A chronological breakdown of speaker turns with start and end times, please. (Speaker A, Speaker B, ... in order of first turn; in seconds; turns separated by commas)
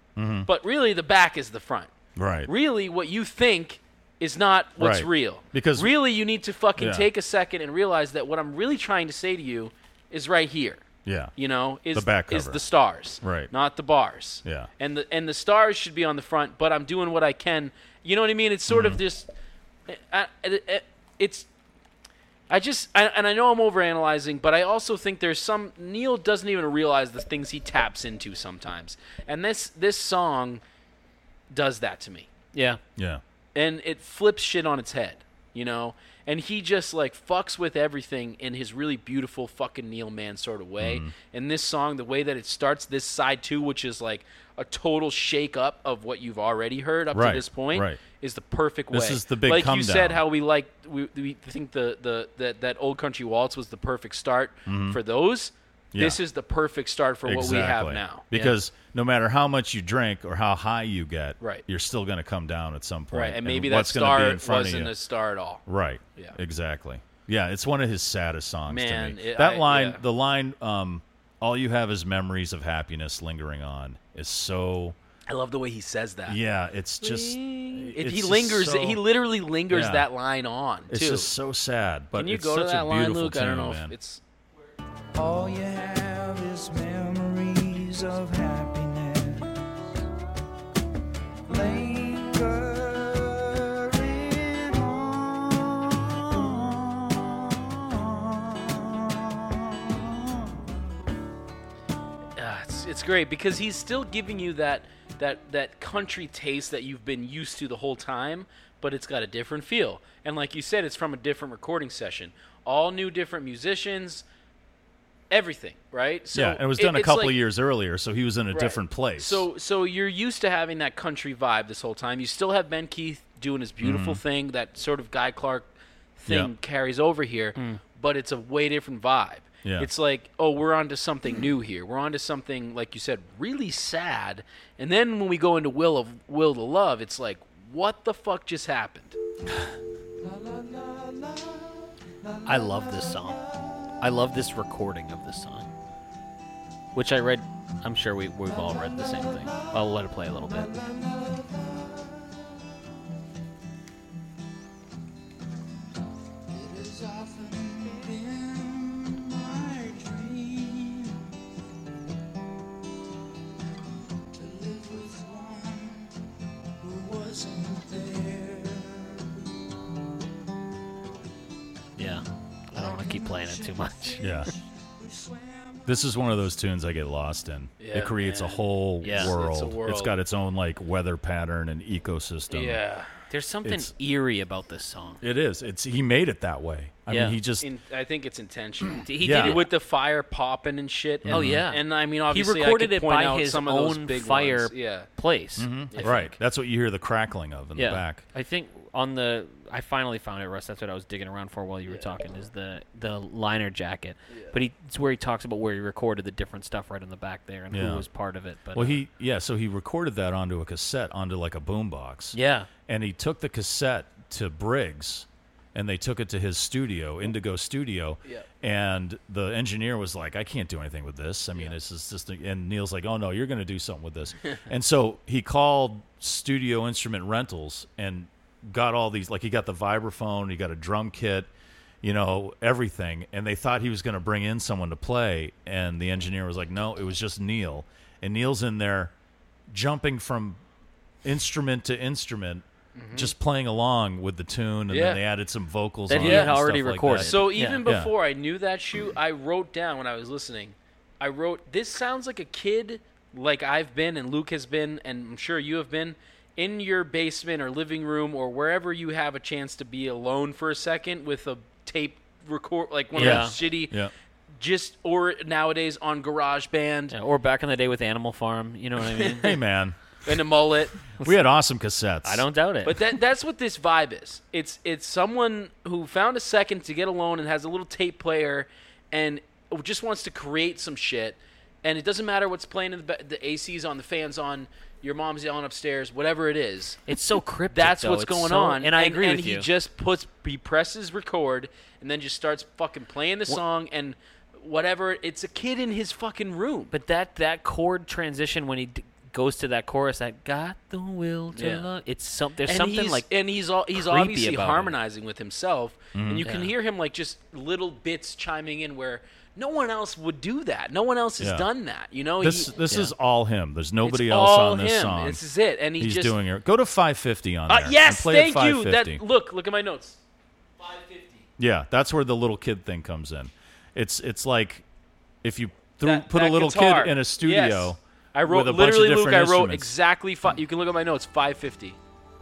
Speaker A: 0.1-0.5, Speaker B: 0.5-1.9, Speaker A: 2.1-2.5, Speaker B: 2.5-10.8, Speaker A: 4.8-5.9, Speaker A: 6.8-7.1, Speaker A: 11.0-11.3, Speaker B: 11.3-19.3, Speaker A: 11.9-12.6, Speaker A: 13.2-13.5, Speaker A: 14.4-14.7, Speaker A: 18.7-19.0, Speaker B: 19.9-21.5, Speaker B: 22.5-30.6, Speaker B: 31.5-32.3, Speaker C: 32.5-32.8, Speaker A: 33.0-33.2, Speaker B: 33.5-58.6, Speaker A: 40.8-41.1, Speaker A: 47.1-48.0, Speaker A: 48.9-50.2, Speaker A: 54.6-55.0, Speaker A: 55.9-56.2, Speaker A: 57.2-65.0, Speaker B: 61.4-61.6, Speaker B: 63.1-65.6, Speaker A: 65.7-75.0, Speaker B: 68.7-70.0, Speaker B: 75.3-76.4, Speaker A: 76.2-79.0, Speaker B: 77.9-81.3, Speaker A: 79.7-80.1, Speaker A: 80.9-83.9, Speaker B: 82.1-84.2, Speaker D: 85.2-89.5, Speaker D: 91.5-100.5, Speaker B: 102.4-114.2, Speaker B: 115.3-117.4, Speaker A: 116.3-119.4, Speaker B: 118.5-139.2, Speaker A: 123.8-124.2, Speaker A: 129.6-129.9, Speaker C: 142.4-143.4, Speaker C: 144.0-145.7, Speaker C: 146.9-150.7, Speaker D: 148.7-149.7, Speaker D: 150.5-152.1, Speaker D: 156.5-161.2, Speaker D: 164.3-166.1, Speaker D: 166.8-169.3, Speaker C: 172.0-174.2, Speaker D: 172.7-175.8, Speaker A: 174.2-174.5, Speaker A: 175.8-182.8, Speaker B: 177.8-180.1, Speaker C: 179.0-179.3, Speaker B: 182.5-183.1, Speaker C: 183.3-185.2, Speaker A: 183.6-183.9, Speaker A: 185.2-187.7, Speaker C: 187.1-187.3, Speaker B: 187.6-195.1, Speaker C: 189.0-189.7, Speaker A: 189.2-189.6, Speaker A: 191.2-191.6, Speaker C: 191.3-196.3, Speaker A: 195.6-198.2, Speaker B: 195.9-196.3, Speaker C: 197.8-209.0, Speaker A: 207.7-208.1, Speaker A: 208.7-212.3, Speaker C: 212.3-212.7, Speaker A: 212.9-231.5, Speaker A: 232.0-239.1, Speaker A: 239.7-240.6, Speaker A: 241.2-248.1, Speaker B: 242.9-243.3, Speaker B: 244.9-245.2, Speaker C: 246.1-247.8, Speaker B: 246.1-246.6, Speaker B: 247.1-263.9, Speaker C: 263.1-263.6, Speaker A: 263.2-264.1, Speaker B: 264.6-267.1, Speaker C: 267.1-269.5, Speaker B: 269.1-269.5, Speaker A: 269.4-270.0, Speaker B: 270.2-271.1, Speaker A: 271.2-272.4, Speaker C: 272.2-273.1, Speaker B: 272.8-287.0, Speaker C: 287.1-289.7, Speaker B: 287.7-296.9, Speaker C: 296.9-303.3, Speaker B: 301.5-301.9, Speaker B: 302.6-312.7, Speaker C: 303.9-305.0, Speaker A: 306.1-306.5, Speaker C: 306.4-306.7, Speaker A: 311.4-311.7, Speaker A: 312.4-315.4, Speaker B: 314.0-316.4, Speaker A: 316.0-319.2, Speaker B: 317.7-320.2, Speaker B: 320.8-321.5, Speaker A: 321.6-324.8, Speaker A: 325.4-329.9, Speaker B: 326.0-332.0